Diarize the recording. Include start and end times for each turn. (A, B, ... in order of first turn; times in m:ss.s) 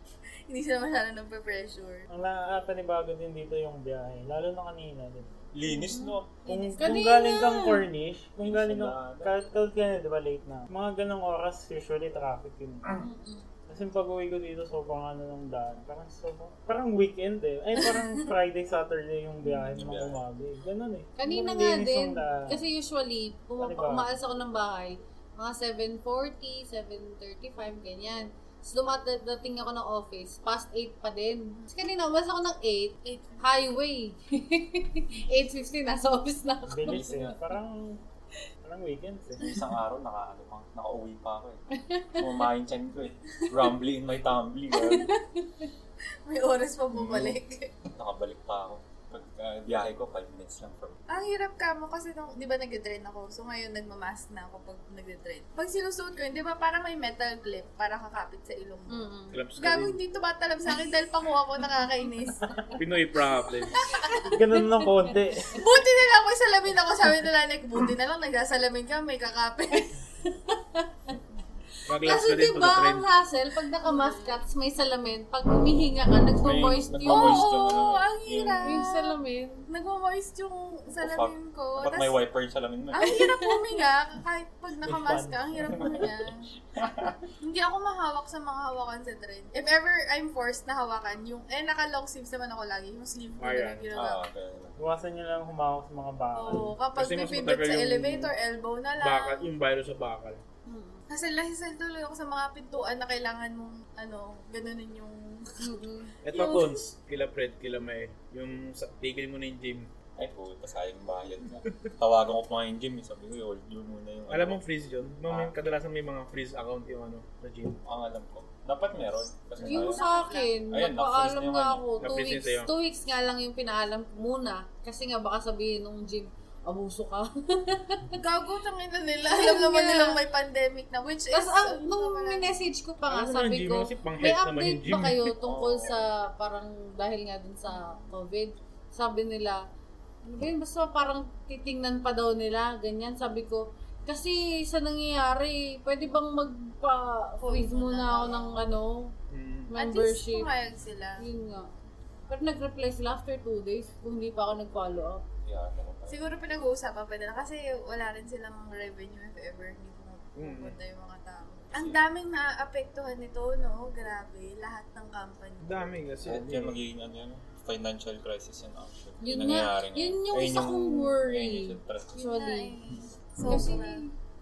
0:00.5-0:02.1 A
0:02.1-0:05.3 B
0:05.5-0:06.4 C
0:05.7-0:06.2 D
0:06.4-0:12.9 B
0:06.5-0:06.7 A
0:06.8-0:07.8 D
0:08.4-0:09.4 C
0:12.9-0:13.4 D
0:13.7-0:22.6 B
0:19.4-0:20.2 C
0:21.2-0:37.4 D
0:23.6-0:24.1 B
0:33.0-0:33.4 A
0:36.7-0:38.0 B
0:36.9-0:37.3 C
0:38.6-0:39.4 B
0:39.4-0:41.6 C
0:41.7-0:42.3 D
0:42.2-0:45.1 C
0:44.8-0:45.7 D
0:46.3-0:47.7 A
0:47.0-0:47.3 E
0:47.0-0:47.4 C
0:47.9-0:51.0 C
0:51.1-0:59.0 A
0:58.9-0:59.4 D
0:59.3-1:00.0 E
0:59.6-1:02.5 A
1:02.8-1:03.8 E
1:03.9-1:04.3 A
1:04.3-1:05.6 B
1:05.5-1:10.0 A
1:10.3-1:10.9 D
1:11.9-1:13.0 E
1:12.0-1:17.5 D
1:13.8-1:14.4 A
1:16.4-1:18.9 C
1:17.0-1:19.1 A
1:18.6-1:19.7 D
1:19.7-1:22.2 A
1:21.0-1:23.1 C
1:22.9-1:26.5 A
1:23.0-1:23.6 D
1:24.9-1:25.5 B
1:25.6-1:27.2 C
1:27.4-1:34.2 A
1:33.4-1:33.9 E
1:33.9-1:34.8 C
1:34.8-1:36.8 B
1:36.3-1:39.5 A
1:36.9-1:38.3 E
1:39.0-1:40.4 E
1:40.7-1:41.0 D
1:41.1-1:45.6 A
1:45.6-1:46.2 D
1:46.2-1:49.9 E
1:46.3-1:46.8 A
1:50.2-1:54.6 C
1:54.3-1:57.8 E
1:55.3-1:55.5 C
1:57.8-2:00.0 C
1:59.6-2:08.2 D
1:59.8-2:00.6 A
2:00.7-2:01.9 C
2:02.0-2:02.7 E
2:08.1-2:12.6 A
2:09.3-2:10.2 D
2:11.3-2:19.6 D
2:13.1-2:15.3 E
2:15.4-2:16.1 C
2:17.7-2:18.1 A
2:20.2-2:29.2 D
2:27.4-2:28.7 A
2:29.3-2:29.7 E
2:29.7-2:30.5 D
2:29.8-2:31.2 A
2:31.2-2:31.7 D
2:32.3-2:35.2 D
2:35.4-2:36.3 C
2:36.1-2:45.9 A
2:40.4-2:40.8 E
2:41.7-2:42.0 C
2:45.6-2:46.8 E
2:46.3-2:52.3 C
2:49.2-2:52.8 D
2:52.2-2:54.0 A
2:53.5-2:54.1 D